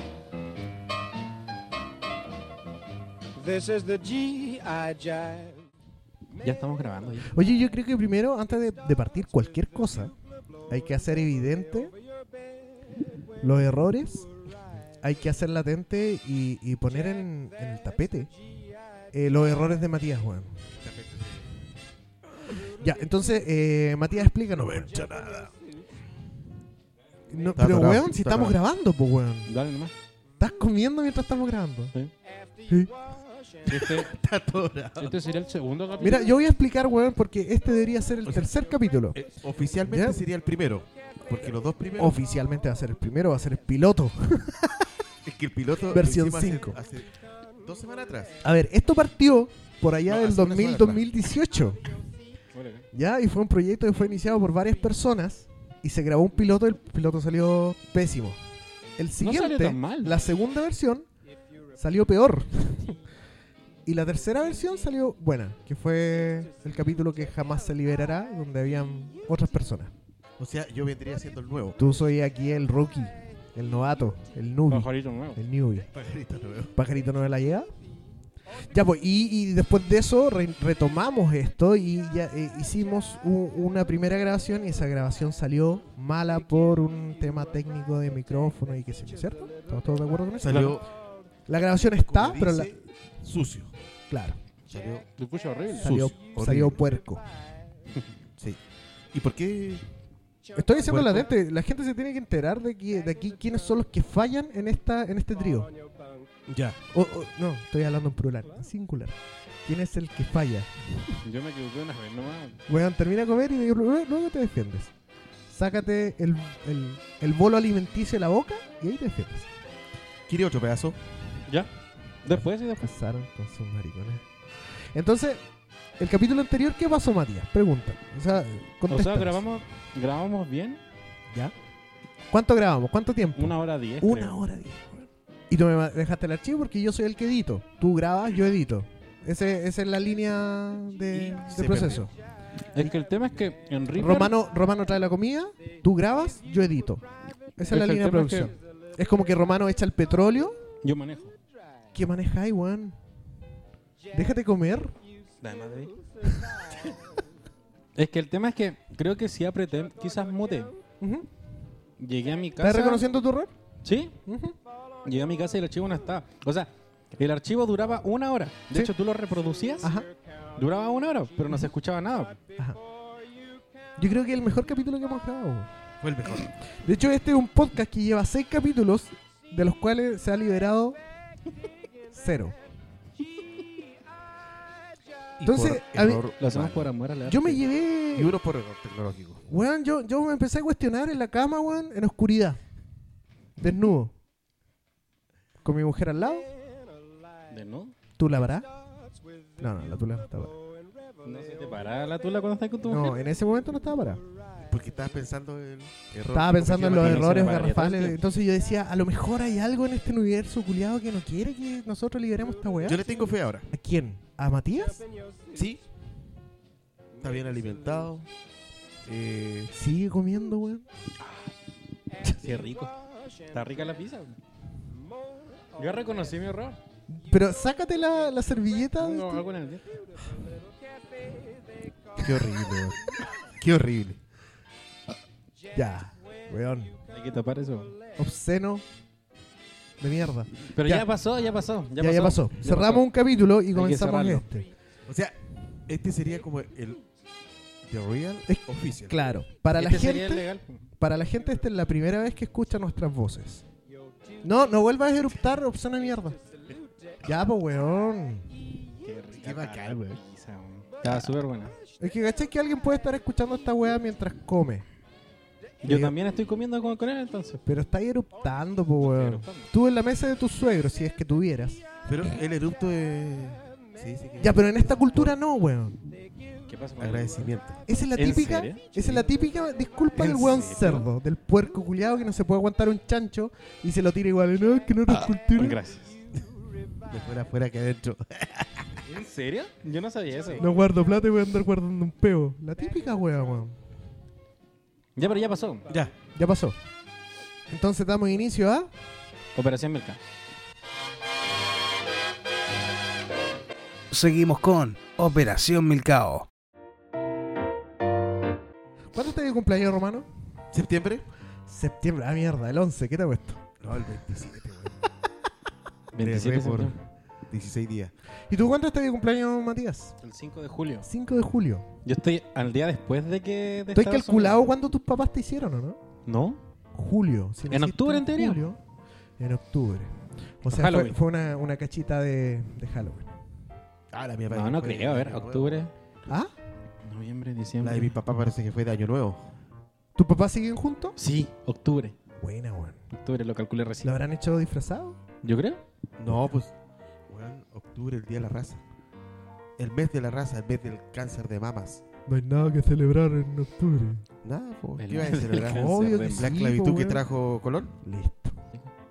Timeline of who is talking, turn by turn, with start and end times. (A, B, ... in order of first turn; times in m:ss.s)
0:03.5-0:05.5 A
0:06.4-0:07.3 B
0:07.3-0:10.1 C
0:10.7-0:11.9 C
0:13.4-0:14.3 C
0:15.0-0:18.3 C
0:19.1-0:20.6 C
0:20.8-0:21.5 D
0:22.6-0:25.0 C
0:24.6-0:25.5 D
0:27.3-0:29.5 C
0:27.6-0:28.6 D
0:29.5-0:29.9 B
0:30.4-0:31.9 C
0:32.7-0:32.9 C
0:33.7-0:34.1 B
0:33.7-0:35.1 D
0:35.0-0:36.3 B
0:36.0-0:39.2 C
0:39.1-0:42.2 D
0:39.8-0:40.2 C
0:42.0-0:44.9 C
0:45.2-0:48.4 D
0:45.9-0:46.8 C
0:48.4-0:51.8 C
0:50.0-0:51.1 D
0:52.5-0:52.8 B
0:52.9-0:58.4 C
0:59.0-1:01.0 C
0:59.2-1:00.2 B
1:01.7-1:03.0 C
1:03.8-1:09.9 C
1:10.4-1:11.8 D
1:11.8-1:15.9 C
1:14.7-1:15.4 B
1:15.9-1:16.7 D
1:16.7-1:17.7 C
1:18.7-1:30.8 C
1:30.4-1:30.8 D
1:31.5-1:32.8 C
1:32.0-1:33.7 D
1:34.1-1:34.4 C
1:34.7-1:35.1 D
1:35.2-1:36.0 B
1:35.8-1:37.2 C
1:35.8-1:36.8 D
1:39.1-1:39.8 D
1:40.5-1:45.7 C
1:40.8-1:41.3 D
1:46.5-1:46.8 D
1:46.9-1:51.2 C
1:51.2-1:52.6 B
1:52.7-1:54.9 C
1:55.5-1:59.5 C
2:00.3-2:01.0 D
2:02.2-2:02.9 B
2:02.3-2:04.2 C
2:04.9-2:05.4 C
2:06.0-2:09.4 C
2:08.9-2:10.8 B
2:12.3-2:22.1 C
2:13.4-2:14.4 B
2:21.1-2:22.0 D
2:22.7-2:24.3 B
2:23.9-2:27.0 C
2:27.6-2:30.6 C
2:27.7-2:28.5 B
2:30.8-2:31.3 B
2:31.9-2:33.0 C
2:34.1-2:35.0 C
2:35.4-2:36.0 B
2:36.2-2:36.7 C
2:38.0-2:40.7 B
2:41.0-2:41.3 C
2:42.0-2:43.0 B
2:42.6-2:43.5 C
2:43.8-2:44.1 B
2:44.3-2:44.6 C
2:45.0-2:49.9 B
2:49.8-2:50.1 C
2:50.6-2:52.4 B
2:54.0-2:55.7 C
2:56.0-2:56.5 D
2:56.8-3:01.0 C
3:02.1-3:02.6 C
3:05.4-3:06.9 D
3:05.4-3:06.3 C
3:06.4-3:07.6 B
3:07.2-3:08.4 C
3:08.1-3:09.4 D
3:09.5-3:12.6 C
3:13.6-3:14.1 C
3:15.6-3:16.5 C
3:17.5-3:17.9 B
3:18.2-3:18.7 C
3:19.6-3:20.6 C
3:21.2-3:23.2 B
3:22.8-3:24.2 C
3:24.7-3:27.6 D
3:26.3-3:33.1 C
3:26.8-3:28.2 B
3:32.8-3:33.7 D
3:33.7-3:35.0 C
3:35.5-3:35.8 D
3:37.2-3:38.3 D
3:39.0-3:39.7 D
3:39.7-3:40.8 C
3:41.2-3:41.5 B
3:42.2-3:42.6 C
3:42.4-3:42.9 B
3:43.5-3:44.4 B
3:45.8-3:46.8 B
3:47.1-3:49.4 C
3:49.0-3:49.9 B
3:52.2-3:54.2 D
3:55.7-3:57.0 C
3:57.1-3:58.0 B
3:58.2-3:58.8 C
4:00.0-4:01.1 C
4:00.7-4:03.1 B
4:02.0-4:04.7 C
4:03.7-4:04.4 B
4:05.1-4:05.3 D
4:05.9-4:07.0 D
4:07.9-4:09.2 D
4:08.5-4:10.5 C
4:09.7-4:10.8 B
4:11.0-4:13.6 C
4:14.4-4:16.4 C
4:17.2-4:18.7 C
4:19.0-4:21.7 B
4:19.4-4:20.1 D
4:22.0-4:24.8 C
4:25.8-4:27.6 B
4:25.8-4:26.2 C
4:27.6-4:31.8 C
4:29.0-4:29.7 B
4:32.0-4:35.3 D
4:34.4-4:36.0 C
4:36.6-4:37.4 B
4:37.0-4:37.8 D
4:37.9-4:45.8 C
4:38.1-4:39.2 B
4:40.1-4:41.1 B
4:45.6-4:46.2 B
4:47.0-4:49.0 D
4:49.0-4:50.7 B
4:50.5-4:53.8 C
4:55.2-4:55.9 B
4:55.9-4:56.1 D
4:56.3-4:56.8 C
4:57.7-4:58.9 C
4:59.5-5:00.2 B
5:04.1-5:06.5 E
5:09.1-5:10.3 C
5:10.7-5:11.2 D
5:11.7-5:13.6 C
5:13.8-5:15.0 D
5:16.1-5:16.9 B
5:16.2-5:17.0 D
5:17.5-5:18.1 D
5:18.5-5:20.1 C
5:20.2-5:21.1 B
5:21.0-5:21.9 C
5:22.0-5:24.6 B
5:23.9-5:26.0 C
5:26.3-5:26.6 B
5:26.9-5:28.8 C
5:27.7-5:28.6 B
5:29.4-5:33.3 C
5:30.7-5:31.2 B
5:34.1-5:35.8 D
5:34.5-5:35.9 B
5:37.0-5:38.1 B
5:37.8-5:39.5 D
5:40.2-5:41.2 C
5:41.2-5:42.1 B
5:42.4-5:43.0 C
5:43.1-5:44.1 B
5:44.0-5:45.2 C
5:45.4-5:45.8 B
5:46.2-5:46.7 D
5:47.3-5:48.8 D
5:49.8-5:52.0 D
5:52.3-5:54.2 C
5:54.4-5:58.0 D
5:55.0-5:56.5 B
5:55.5-5:57.2 C
5:58.0-5:58.6 C